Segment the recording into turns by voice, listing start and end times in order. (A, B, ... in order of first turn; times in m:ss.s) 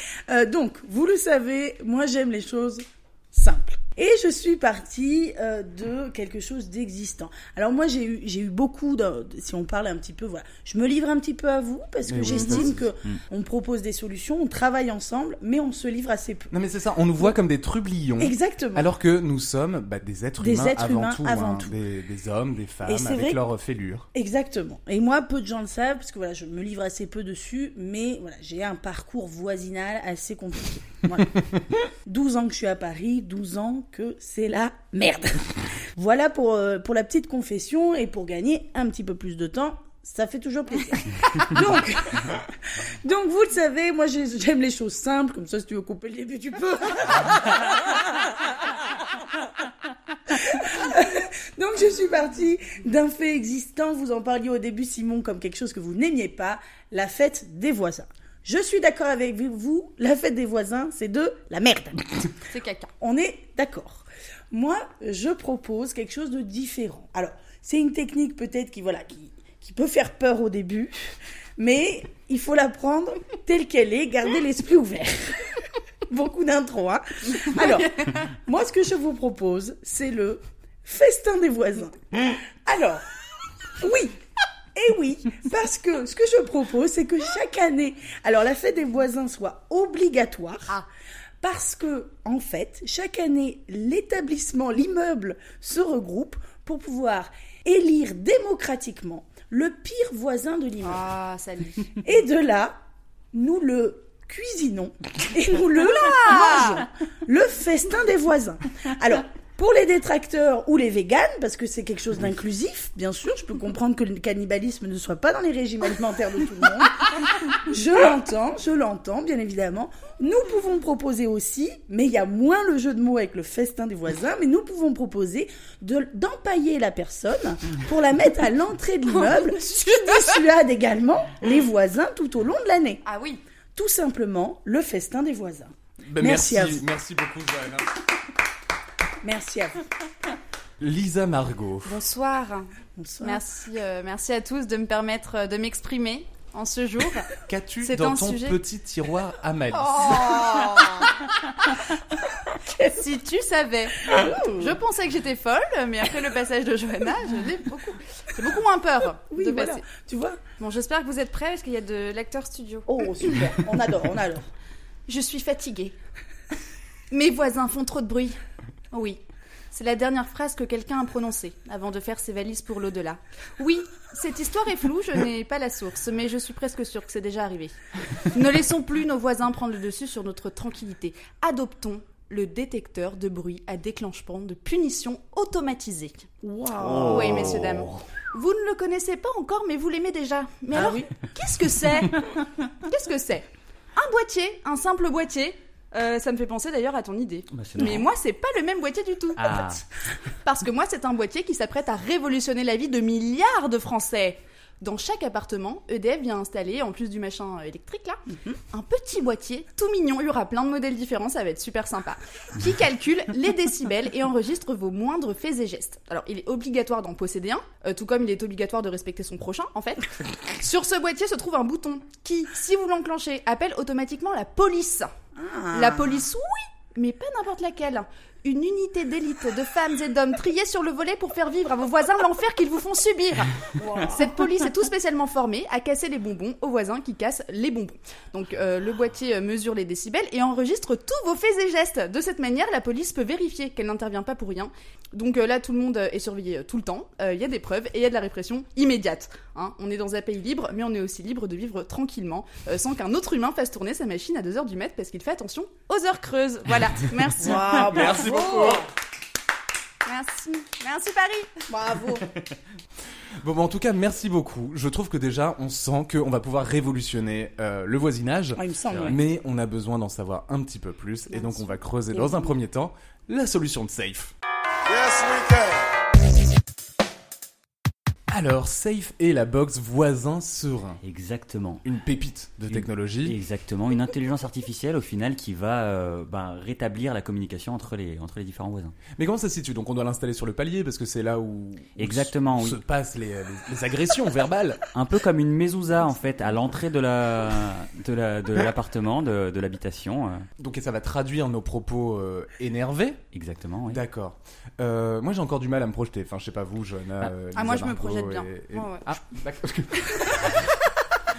0:00.3-0:16.5 A
0:12.1-0:12.9 B
0:12.3-0:13.2 C
0:16.5-0:24.1 B
0:18.2-0:18.9 A
0:20.4-0:21.7 A
0:22.8-0:23.4 A
0:24.1-0:48.7 A
0:50.3-1:02.3 A
1:02.5-1:02.9 D
1:03.0-1:15.6 A
1:16.1-1:23.0 A
1:23.8-1:24.2 A
1:24.7-1:30.8 A
1:31.4-1:41.1 A
1:40.8-1:41.9 D
1:41.9-1:42.8 A
1:43.3-2:13.0 A
1:46.2-1:46.8 D
2:09.1-2:10.2 D
2:13.0-2:13.4 D
2:13.7-2:16.8 A
2:16.0-2:17.9 B
2:19.2-2:19.8 A
2:20.8-2:22.0 B
2:21.8-2:27.3 D
2:23.0-2:23.4 A
2:27.5-2:30.5 B
2:27.8-2:28.6 D
2:30.1-2:31.0 D
2:30.3-2:31.1 A
2:32.5-2:33.0 A
2:32.9-2:39.8 D
2:34.1-2:34.8 A
2:39.3-2:40.4 A
2:40.6-2:43.0 D
2:42.9-2:44.5 A
2:45.1-2:46.0 D
2:47.1-2:48.4 D
2:48.9-2:49.2 D
2:49.7-3:06.3 D
3:06.4-3:07.6 A
3:06.8-3:08.0 C
3:07.1-3:19.7 D
3:10.7-3:11.1 A
3:17.5-3:18.1 C
3:19.4-3:19.8 C
3:20.4-3:45.1 D
3:45.4-3:46.2 A
3:45.7-4:18.7 D
4:17.4-4:18.8 A
4:17.8-4:18.8 B
4:20.0-4:21.7 D
4:21.7-4:22.2 A
4:23.4-4:34.3 B
4:28.6-4:29.2 A
4:28.9-4:29.2 C
4:32.1-4:32.5 A
4:38.3-4:41.0 B
4:41.0-4:41.8 C
4:41.8-4:43.4 B
4:42.7-4:49.0 C
4:49.1-4:54.8 B
4:52.0-4:52.8 C
4:54.9-5:00.5 C
5:00.6-5:03.2 B
5:03.3-5:04.0 C
5:03.9-5:10.6 B
5:07.5-5:09.0 D